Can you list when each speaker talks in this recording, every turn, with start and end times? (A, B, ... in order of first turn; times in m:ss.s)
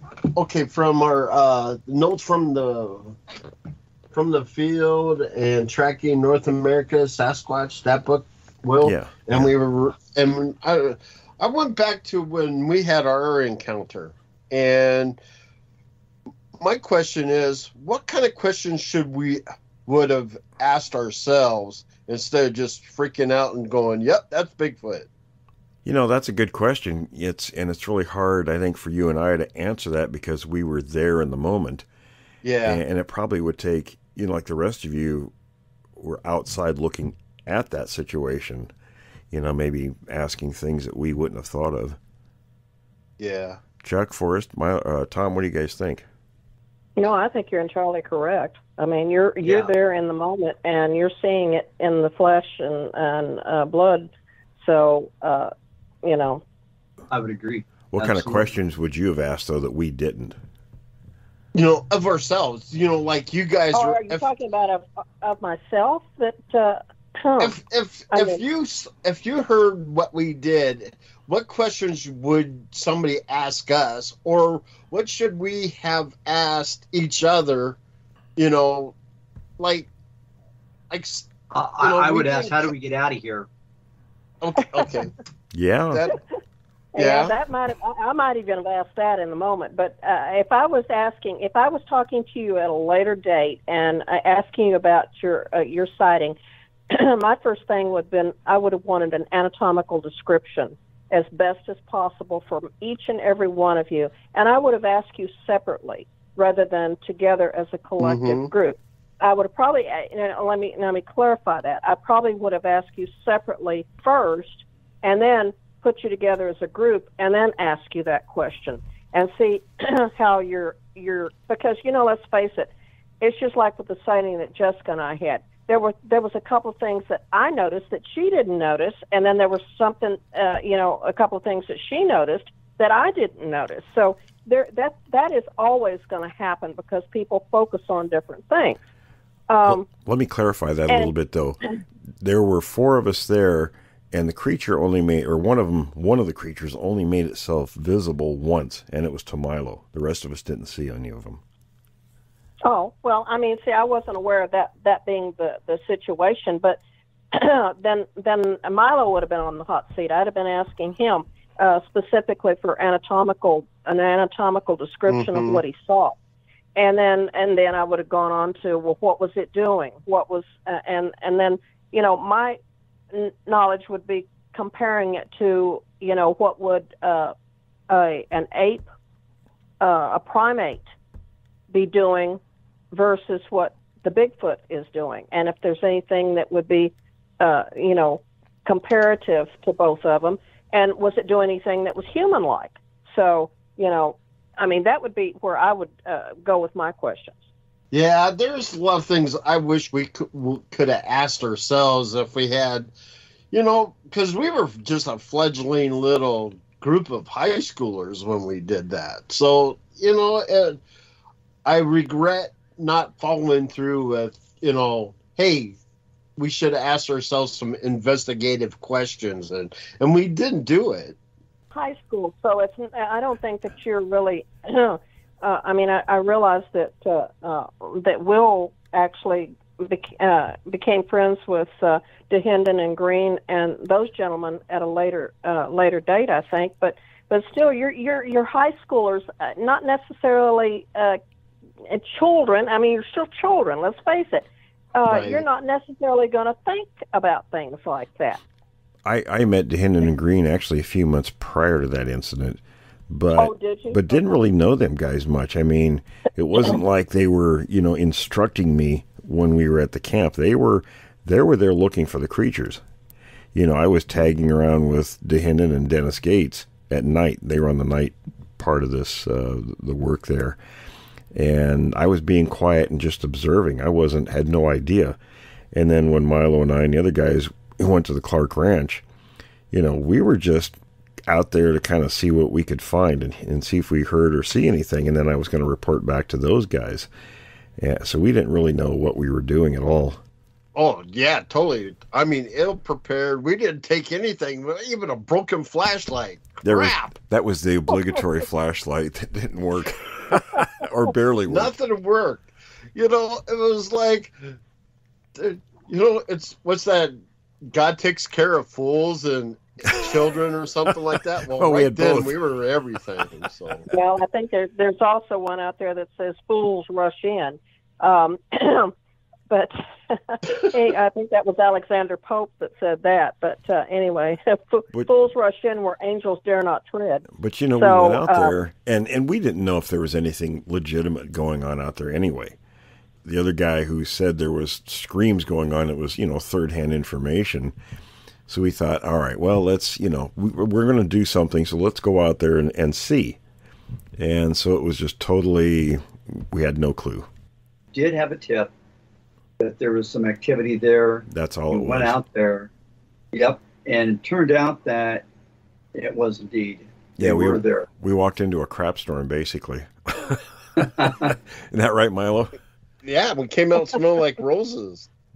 0:00.3-0:03.2 A
0:04.1-0:15.2 A
0:08.8-0:09.5 B
0:16.6-0:25.1 A
0:25.8-0:31.9 B
0:32.4-0:32.8 A
0:32.6-0:35.3 B
0:36.0-0:38.7 B
0:39.3-0:42.0 B
0:43.2-0:43.6 A
0:43.8-0:46.1 B
0:47.0-0:54.1 C
0:49.4-0:49.7 D
0:54.6-0:55.5 C
0:56.0-0:56.4 C
0:57.1-0:58.5 D
0:57.9-1:00.4 B
1:01.6-1:04.3 A
1:03.7-1:07.6 C
1:07.4-1:17.8 A
1:08.1-1:08.4 C
1:18.4-1:19.0 A
1:19.6-1:19.9 A
1:20.9-1:21.3 A
1:21.5-1:23.5 D
1:21.8-1:22.7 A
1:24.4-1:25.1 A
1:25.5-1:26.1 B
1:25.9-1:26.2 A
1:27.0-1:36.4 C
1:27.0-1:27.3 A
1:36.9-2:18.8 C
1:48.0-1:48.5 A
2:19.5-2:19.9 C
2:19.6-2:21.6 B
2:22.2-2:31.4 B
2:32.6-2:36.8 C
2:37.3-2:46.2 C
2:45.1-2:45.6 A
2:46.8-2:52.6 C
2:53.1-2:57.4 C
2:57.9-2:58.9 C
2:59.8-3:00.8 C
3:01.7-3:02.4 C
3:02.9-3:17.4 C
3:17.9-3:22.9 A
3:23.5-3:30.8 A
3:31.6-3:35.8 A
3:36.4-3:41.2 A
3:41.7-4:01.2 C
4:01.9-4:08.4 C
4:05.1-4:05.4 A
4:09.0-4:22.8 B
4:13.4-4:14.4 C
4:23.5-4:30.6 B
4:31.3-4:35.2 B
4:35.7-4:39.0 B
4:39.7-4:47.1 B
4:47.8-4:50.2 B
4:50.8-4:57.1 A
4:56.6-5:01.8 B
5:01.5-5:04.6 A
5:05.4-5:13.9 A
5:09.9-5:10.2 B
5:11.5-5:12.4 B
5:13.9-5:18.9 C
5:19.5-5:27.2 C
5:27.3-5:32.6 B
5:27.8-5:28.6 C
5:33.2-5:37.8 B
5:38.5-5:43.4 B
5:44.2-5:47.3 B
5:47.9-5:48.7 D
5:49.6-5:52.7 D
5:51.3-5:52.2 B
5:53.3-5:55.2 D
5:56.0-5:57.9 D
5:57.2-6:02.6 B
6:00.8-6:01.4 D
6:03.0-6:05.1 A